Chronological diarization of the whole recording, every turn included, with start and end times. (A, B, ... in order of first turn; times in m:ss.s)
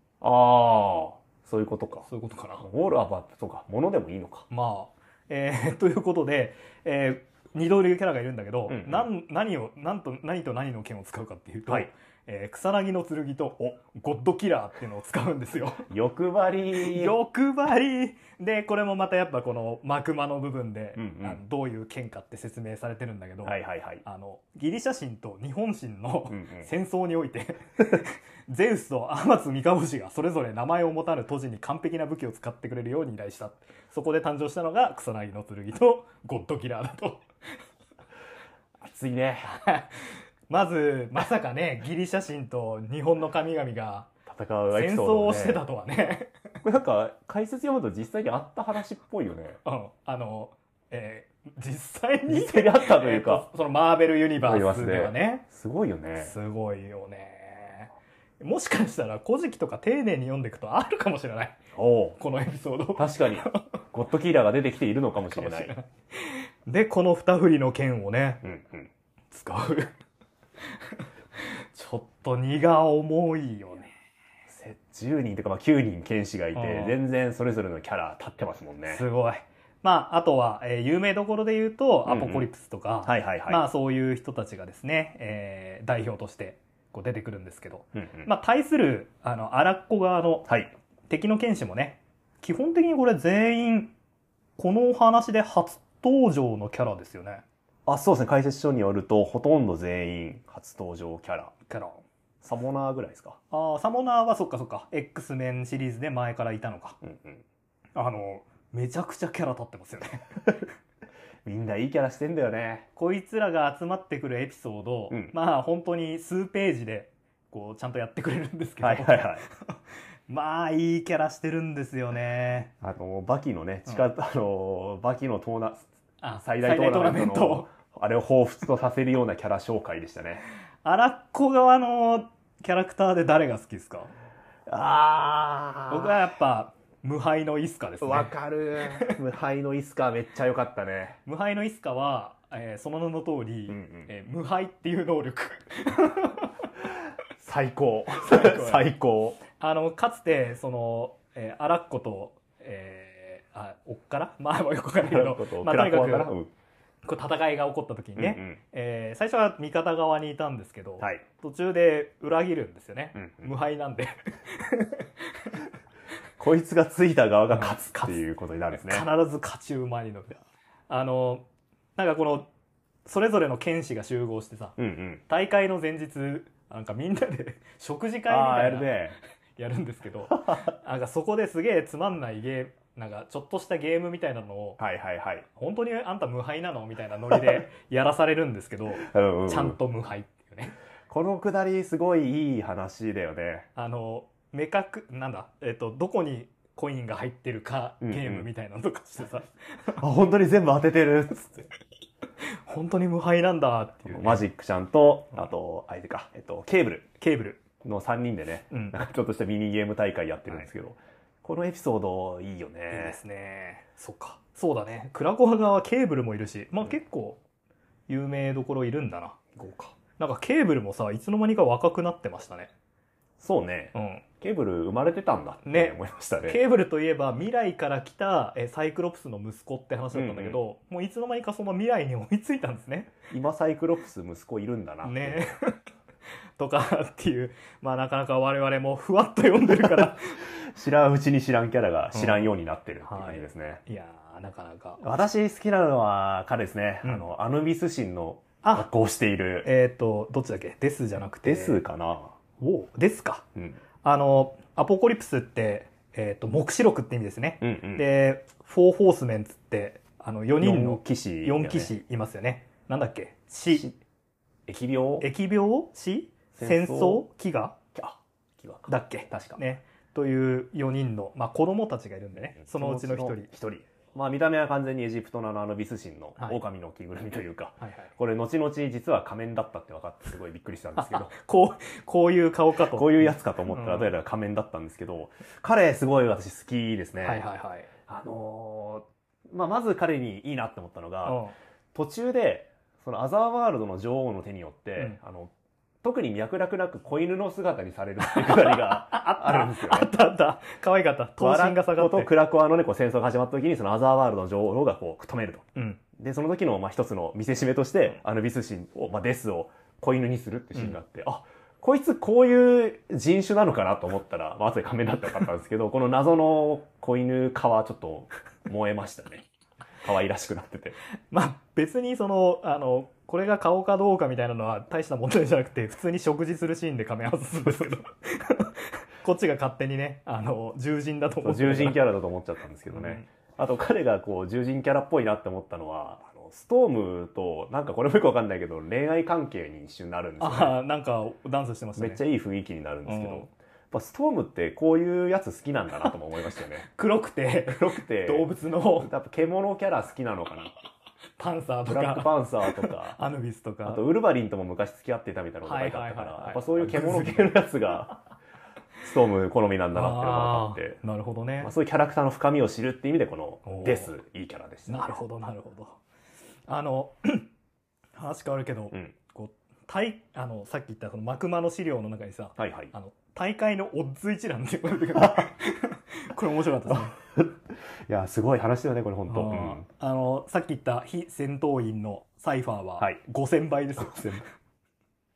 0:00.2-0:02.0 A
0:02.0-0:02.6 B
0:02.6-0:04.4 A
0:04.5-0:15.9 B
0:08.7-0:09.1 A
0:15.9-0:17.2 A
0:16.7-0:37.2 B
0:21.0-0:21.4 A
0:23.4-0:24.0 A
0:26.3-0:26.7 A
0:38.8-0:39.5 A
0:39.4-0:44.1 B
0:44.3-0:45.6 A
0:44.7-0:46.4 B
0:46.6-0:49.6 A
0:49.6-0:55.4 B
0:52.3-0:53.4 A
0:54.4-0:56.3 A
0:56.2-1:01.6 B
1:01.7-1:02.2 A
1:02.2-1:03.6 B
1:03.0-1:05.7 A
1:05.2-1:08.4 B
1:08.4-1:08.9 A
1:09.3-1:09.9 B
1:11.7-1:13.9 B
1:14.5-1:19.0 A
1:16.5-1:17.0 B
1:18.9-1:30.5 B
1:22.1-1:22.5 A
1:23.0-1:23.6 A
1:27.9-1:28.3 A
1:31.1-1:33.9 B
1:34.6-1:37.4 B
1:37.8-1:41.5 A
1:41.7-1:42.0 B
1:42.4-1:43.4 A
1:43.5-1:47.0 B
1:47.0-1:47.4 A
1:47.9-1:50.5 B
1:51.4-1:52.9 A
1:53.0-2:02.7 B
1:58.8-1:59.4 A
2:02.8-2:05.9 A
2:06.2-2:07.7 B
2:06.4-2:10.4 A
2:10.8-2:14.1 B
2:14.7-2:16.2 A
2:15.9-2:19.2 B
2:18.0-2:21.2 A
2:21.2-2:26.5 B
2:23.7-2:24.1 A
2:27.4-2:29.4 A
2:28.2-2:28.9 B
2:29.6-2:36.3 B
2:35.0-2:36.5 A
2:37.0-2:45.6 B
2:38.2-2:38.6 A
2:43.2-2:43.5 A
2:46.4-2:49.1 A
2:47.5-2:48.2 B
2:48.7-2:50.4 B
2:50.9-2:51.4 B
2:52.0-2:52.5 B
2:53.0-2:59.0 B
2:54.8-2:55.2 A
2:58.3-2:59.2 A
2:59.6-3:04.8 B
3:04.8-3:05.4 A
3:05.6-3:10.8 B
3:07.3-3:07.6 A
3:09.0-3:09.8 A
3:11.1-3:13.7 A
3:13.8-3:20.0 B
3:18.0-3:18.5 A
3:20.0-3:21.6 A
3:22.6-3:24.4 B
3:24.1-3:27.1 A
3:27.2-3:27.6 B
3:27.8-3:33.2 A
3:28.7-3:29.0 B
3:32.9-3:37.4 B
3:38.1-3:42.7 B
3:39.6-3:39.8 A
3:43.4-3:46.6 A
3:43.9-3:44.2 B
3:45.6-3:53.2 B
3:50.1-3:50.6 A
3:53.3-3:55.5 A
3:55.0-3:55.8 B
3:56.6-4:00.4 B
3:59.8-4:03.8 A
4:02.1-4:02.5 B
4:03.0-4:05.0 B
4:05.0-4:09.7 A
4:09.6-4:11.8 B
4:11.4-4:12.3 A
4:12.6-4:13.4 B
4:14.0-4:23.9 B
4:17.6-4:18.0 A
4:20.6-4:21.9 A
4:24.7-4:25.3 A
4:25.2-4:27.8 B
4:26.5-4:27.2 A
4:27.9-4:29.6 A
4:28.9-4:33.5 B
4:32.4-4:41.3 A
4:37.8-4:38.1 B
4:41.0-4:44.1 B
4:42.9-4:47.4 A
4:47.2-4:47.9 B
4:48.1-4:51.4 A
4:51.2-4:51.5 B
4:51.9-4:55.5 A
4:56.0-5:00.1 A
4:58.2-5:02.3 B
5:01.4-5:05.6 A
5:06.2-5:19.4 A
5:20.0-5:21.0 A
5:21.3-5:32.0 B
5:31.4-5:40.7 A
5:32.9-5:33.3 B
5:40.4-5:42.2 B
5:42.0-5:46.8 A
5:43.0-5:43.5 B
5:46.9-5:49.1 B
5:47.7-5:48.5 A
5:49.0-5:50.7 A
5:51.4-5:54.0 B
5:51.9-5:53.2 A
5:53.8-5:58.2 A
5:55.6-5:57.6 B
5:59.0-6:01.0 A
5:59.9-6:01.7 B
6:01.6-6:05.2 A
6:03.6-6:04.1 B
6:04.9-6:06.0 B
6:06.7-6:07.5 B
6:08.2-6:17.1 B
6:12.6-6:12.9 A
6:16.9-6:17.5 A
6:18.1-6:19.8 A
6:19.3-6:24.4 B
6:24.0-6:24.4 A